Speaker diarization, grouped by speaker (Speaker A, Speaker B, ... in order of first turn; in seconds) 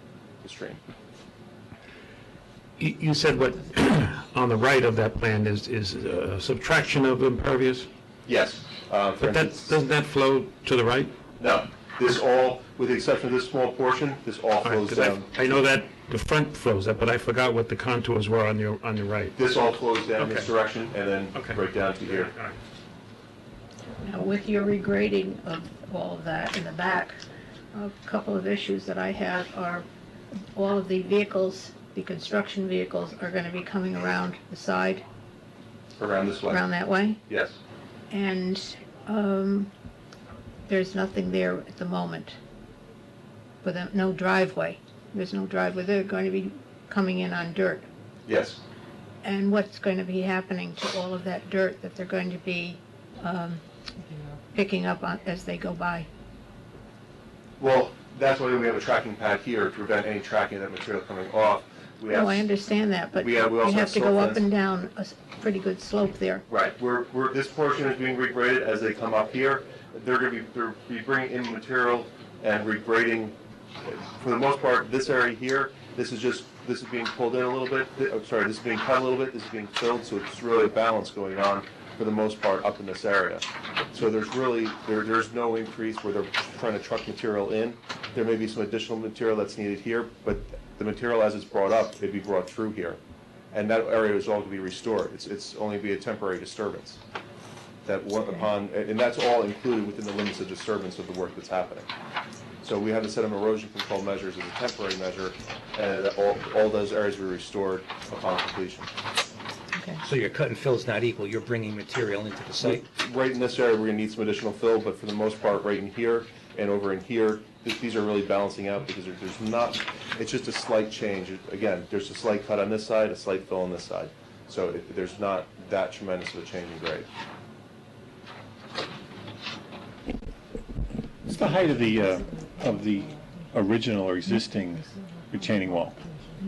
Speaker A: 0.4-0.8, 8.3-9.7, 11.4-15.3, 19.4-22.3, 36.0-36.7, 37.3-37.6, 48.3-48.6, 57.6-62.5, 63.1-64.5, 66.5-93.0, 93.5-97.0, 97.9-101.9, 102.6-108.9, 112.6-127.1
Speaker B: 2.8-7.9, 9.2-11.1, 14.6-19.4, 20.2-20.5, 21.3-22.6
Speaker C: 24.0-27.2, 27.7-29.9, 30.5-35.0, 36.5-37.2, 38.1-39.7, 40.7-42.4, 43.6-47.9, 49.2-53.6, 54.5-56.1, 62.1-66.5, 109.8-110.0
Speaker D: 110.0-112.8
Speaker E: 131.3-136.0